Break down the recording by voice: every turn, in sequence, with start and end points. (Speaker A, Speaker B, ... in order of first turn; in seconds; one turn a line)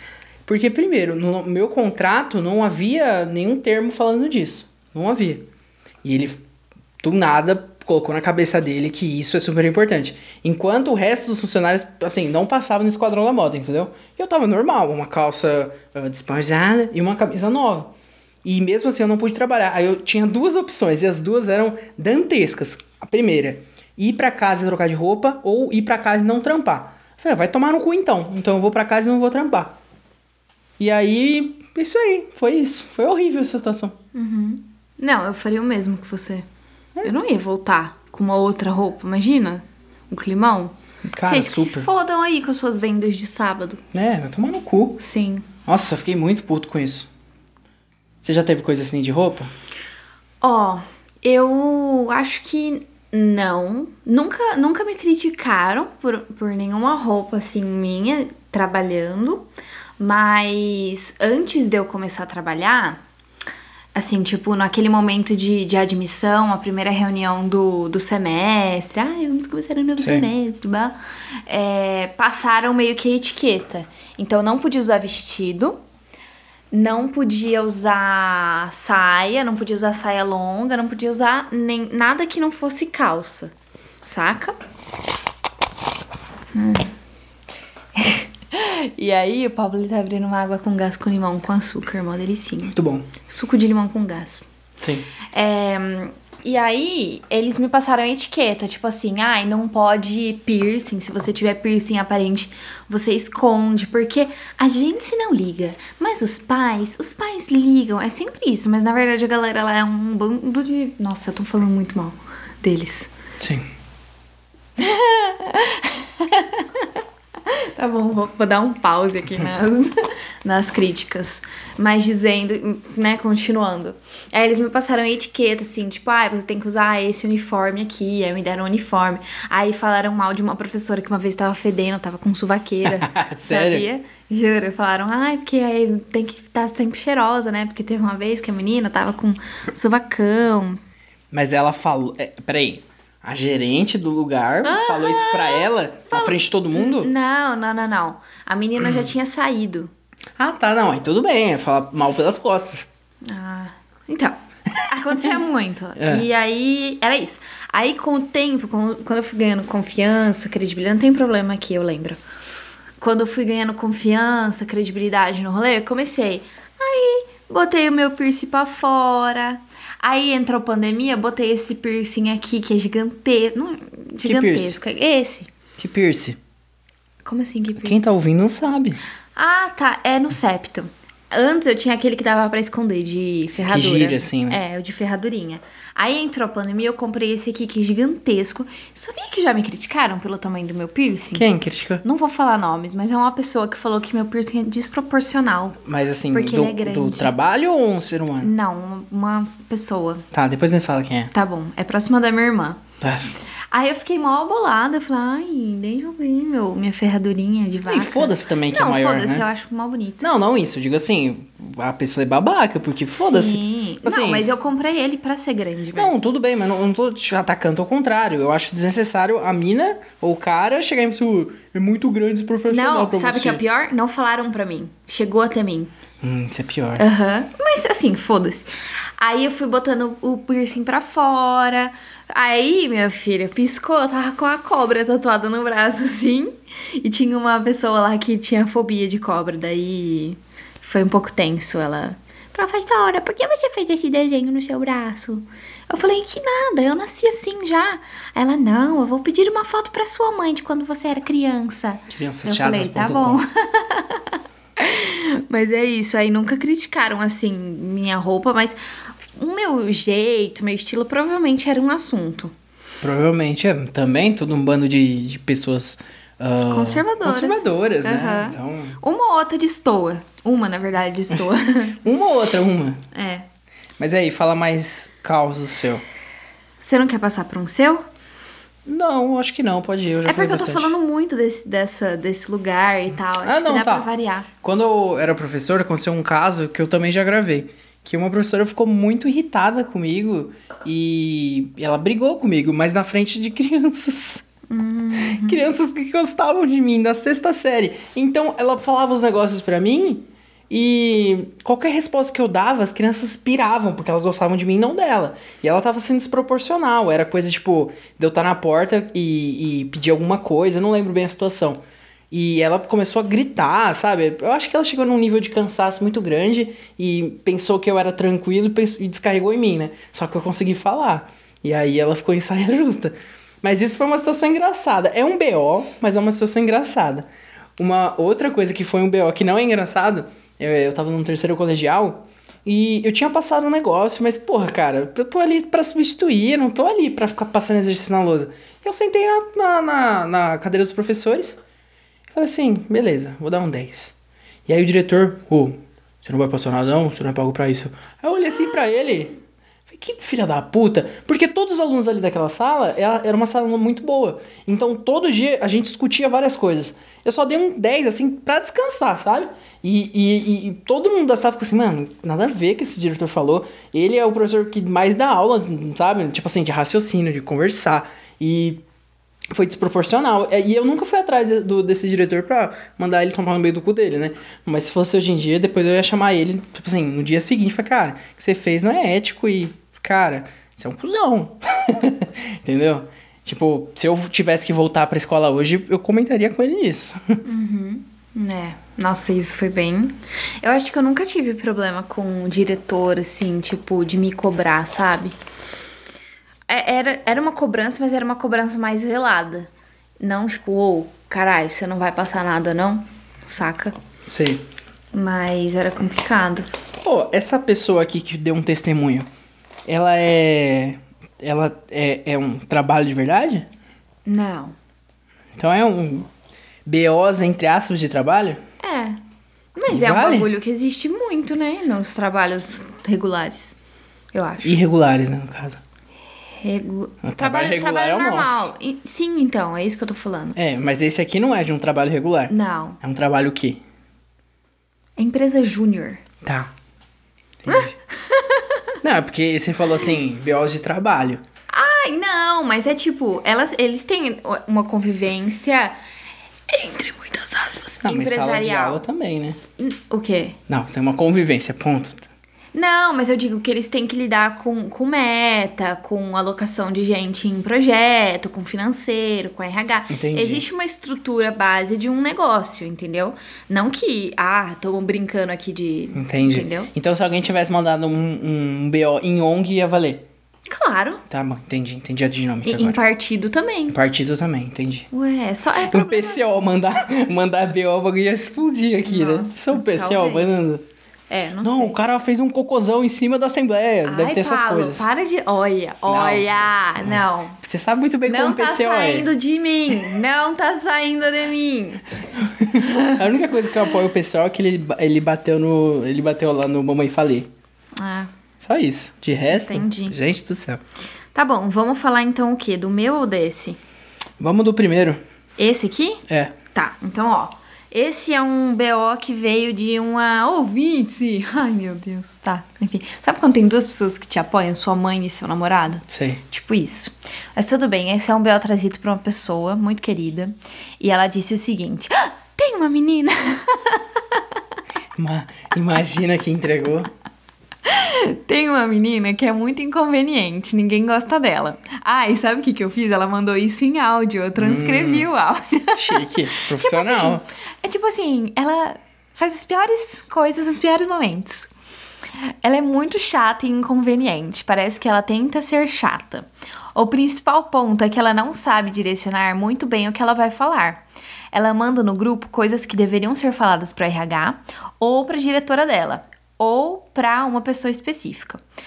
Speaker A: 0.5-5.5
Speaker A: 6.0-6.4
Speaker A: 7.0-17.9
Speaker A: 18.4-29.8
Speaker A: 30.8-34.0
Speaker B: 34.1-36.5
Speaker B: 37.0-43.8
Speaker A: 41.1-41.9
Speaker A: 43.9-45.0
Speaker B: 45.0-45.5
Speaker A: 45.6-47.1
Speaker A: 48.2-49.5
Speaker B: 50.4-59.5
Speaker B: 60.0-63.0
Speaker B: 63.9-70.9
Speaker A: 70.0-70.3
Speaker B: 71.5-75.8
Speaker B: 76.7-83.5
Speaker B: 84.0-84.5
Speaker B: 86.5-86.9
Speaker B: 88.0-94.4
Speaker A: 92.7-93.1
Speaker A: 94.8-95.1
Speaker B: 95.3-113.1
Speaker A: 113.4-113.7
Speaker B: 114.8-140.8
Speaker A: 132.8-133.9
Speaker A: 141.3-147.1
Speaker B: 144.6-149.9
Speaker A: 148.8-149.1
Speaker A: 150.4-152.9
Speaker B: 153.2-162.2
Speaker A: 156.0-156.2
Speaker B: 163.0-175.5
Speaker A: 174.2-174.8
Speaker A: 175.8-176.4
Speaker B: 177.2-178.1
Speaker A: 177.8-179.0
Speaker B: 179.3-191.4
Speaker A: 183.5-184.6
Speaker A: 191.3-192.0
Speaker B: 192.0-195.8
Speaker A: 195.8-198.5
Speaker B: 196.3-197.3
Speaker B: 198.4-200.2
Speaker A: 200.3-201.3
Speaker B: 201.3-202.8
Speaker A: 203.0-203.3
Speaker B: 203.7-210.3
Speaker A: 207.9-209.4
Speaker A: 210.2-214.6
Speaker B: 213.1-216.2
Speaker A: 215.9-223.6
Speaker B: 222.7-225.9
Speaker A: 226.2-227.0
Speaker B: 227.0-258.8
Speaker A: 252.1-253.4
Speaker B: 259.4-262.5
Speaker A: 263.0-269.0
Speaker B: 266.7-272.1
Speaker A: 272.0-273.0
Speaker B: 273.1-273.4
Speaker A: 274.0-276.0
Speaker B: 276.8-278.0
Speaker A: 278.9-280.9
Speaker B: 280.2-284.5
Speaker A: 283.4-284.1
Speaker A: 284.6-294.4
Speaker B: 294.7-295.7
Speaker A: 295.1-327.3
Speaker A: 327.8-341.6
Speaker A: 342.3-344.1
Speaker A: 344.6-349.4
Speaker A: 349.9-368.8
Speaker A: 369.5-387.4
Speaker B: 387.4-395.4
Speaker B: 396.7-399.7
Speaker B: 400.2-403.9
Speaker A: 404.2-404.6
Speaker B: 405.1-406.7
Speaker A: 407.0-409.3
Speaker A: 409.9-413.7
Speaker B: 414.2-414.7
Speaker A: 415.6-416.3
Speaker A: 416.9-418.6
Speaker B: 418.8-419.2
Speaker B: 419.8-423.8
Speaker A: 419.9-420.5
Speaker B: 424.3-424.8
Speaker A: 424.6-425.8
Speaker B: 426.6-430.6
Speaker A: 427.2-428.7
Speaker A: 430.6-433.8
Speaker B: 432.5-433.0
Speaker B: 435.2-436.2
Speaker A: 436.4-436.7
Speaker A: 437.6-437.9
Speaker B: 437.7-438.9
Speaker A: 439.0-441.4
Speaker B: 441.7-445.9
Speaker B: 446.7-449.0
Speaker A: 448.0-449.6
Speaker B: 449.8-450.6
Speaker A: 450.7-452.3
Speaker B: 452.7-466.9
Speaker A: 460.1-460.6
Speaker A: 466.1-470.2
Speaker B: 470.7-471.2
Speaker A: 471.3-473.0
Speaker B: 472.6-474.0
Speaker A: 473.9-475.1
Speaker B: 475.1-476.6
Speaker A: 475.8-480.8
Speaker B: 479.0-480.7
Speaker B: 481.3-482.0
Speaker A: 481.6-485.1
Speaker B: 484.0-487.6
Speaker A: 486.1-489.3
Speaker B: 488.2-492.0
Speaker A: 492.4-497.5
Speaker B: 492.7-493.2
Speaker B: 498.0-498.3
Speaker A: 498.6-500.8
Speaker B: 499.5-500.1
Speaker B: 501.3-503.8
Speaker A: 504.4-505.2
Speaker B: 505.6-506.2
Speaker A: 506.3-506.6
Speaker B: 506.7-524.4
Speaker A: 516.1-516.4
Speaker A: 525.1-527.1
Speaker B: 527.8-541.7
Speaker A: 534.5-535.3
Speaker A: 535.9-537.4
Speaker B: 542.4-558.6